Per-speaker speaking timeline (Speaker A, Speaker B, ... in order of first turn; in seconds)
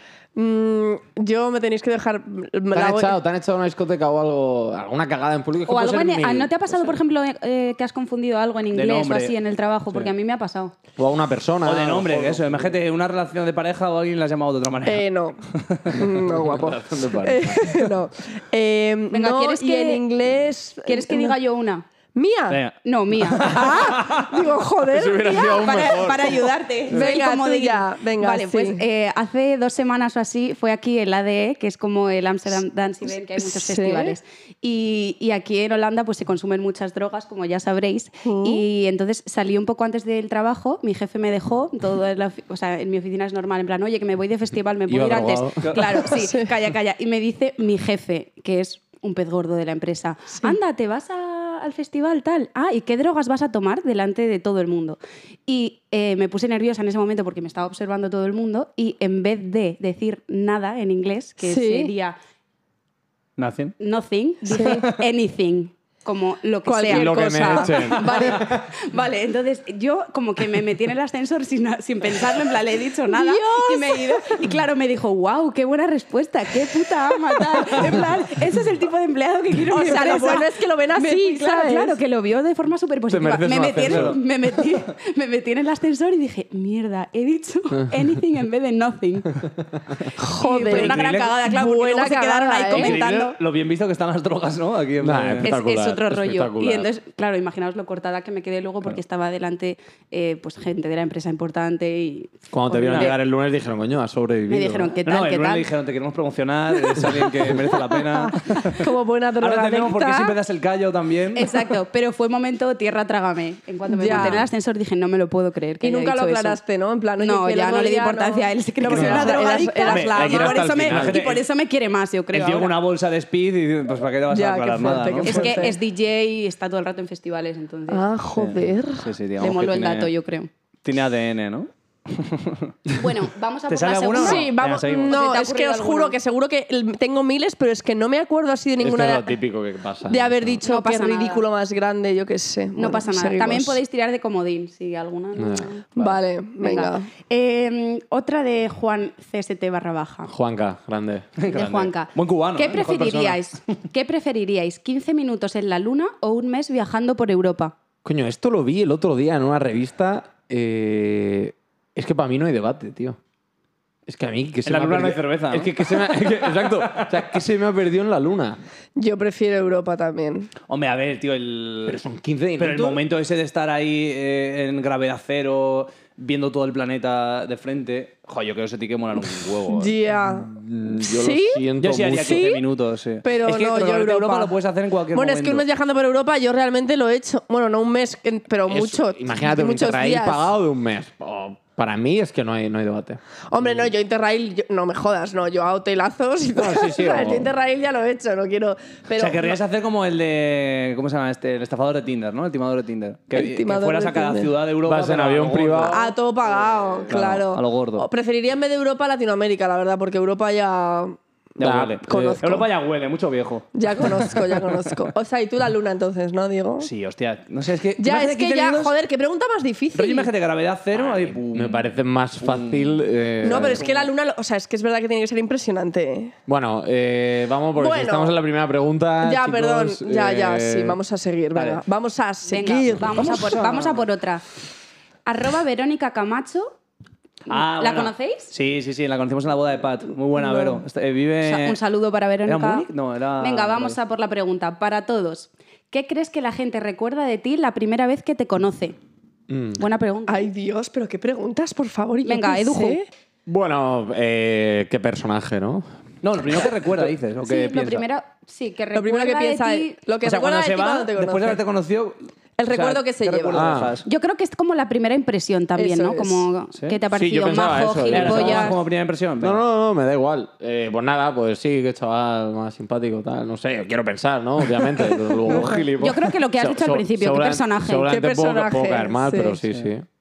Speaker A: 0.3-3.1, 14.8-15.4, 15.9-21.4, 22.1-22.6, 23.4-26.1, 26.9-28.8, 33.4-34.2, 38.2-38.6, 46.0-46.5, 61.4-61.9, 64.5-64.8, 66.7-68.5, 73.1-74.4, 77.6-77.9, 79.7-82.0, 90.2-93.0, 108.5-110.3, 113.9-114.5, 115.8-120.5, 124.3-125.8, 127.9-129.1, 134.1-139.3, 140.1-143.8, 146.0-147.1, 169.0-170.5, 179.7-182.6, 183.2-184.6, 185.1-190.5, 193.5-199.6, 203.3-204.5, 205.9-211.2, 212.1-212.7, 213.8-216.9, 218.0-220.3, 223.4-226.3, 227.8-228.3, 229.2-233.3, 240.4-240.8, 250.3-253.1, 258.9-261.6, 262.6-263.8, 265.8-266.5, 278.1-279.6
Speaker B: 2.7-7.0, 11.0-12.8, 16.2-17.9, 24.9-27.1, 44.9-45.7, 66.9-68.7, 83.1-84.2, 95.0-96.9, 102.5-105.0, 118.9-119.4, 120.2-121.2, 138.8-140.6, 145.4-146.2, 150.3-151.3, 158.0-163.2, 164.1-168.6, 171.9-173.0, 180.4-182.4, 188.7-193.9, 196.6-197.5, 204.8-206.2, 211.6-212.6, 220.9-223.8, 226.5-231.0, 249.5-249.8, 253.5-255.8, 263.5-263.9, 267.1-268.8, 269.4-280.1
Speaker C: 5.7-10.7, 19.1-20.1, 20.9-21.9, 22.8-23.7, 25.2-62.2, 63.8-89.3, 90.2-93.4, 95.4-103.2, 104.5-105.7, 111.3-116.6, 117.2-122.8, 125.3-128.1, 129.4-130.5, 132.9-136.2, 140.6-141.4, 142.8-145.9, 146.6-150.3, 151.5-157.7, 232.5-234.4, 235.3-236.8, 237.5-238.5, 241.4-242.9, 243.4-249.0, 249.8-250.5, 252.2-253.0, 257.4-260.0, 264.1-268.8, 276.0-278.1
Speaker D: 8.7-9.3, 11.7-16.0, 22.5-24.3, 45.6-45.9, 63.4-63.8, 83.8-84.2, 90.7-91.3, 92.7-95.5, 105.0-108.8, 109.4-111.5, 114.1-114.4, 119.9-121.4, 122.3-125.7, 128.4-130.1, 130.8-132.7, 133.7-135.2, 151.4-153.4, 164.7-167.2, 170.7-172.0, 172.6-179.9, 181.8-185.7, 199.2-206.0, 207.1-208.1, 211.6-214.5, 216.8-218.9, 219.9-221.9, 222.4-224.1, 231.6-231.8, 233.2-234.0, 237.5-241.8, 242.5-244.0, 256.2-258.1, 260.2-264.1, 268.1-269.6, 274.8-276.0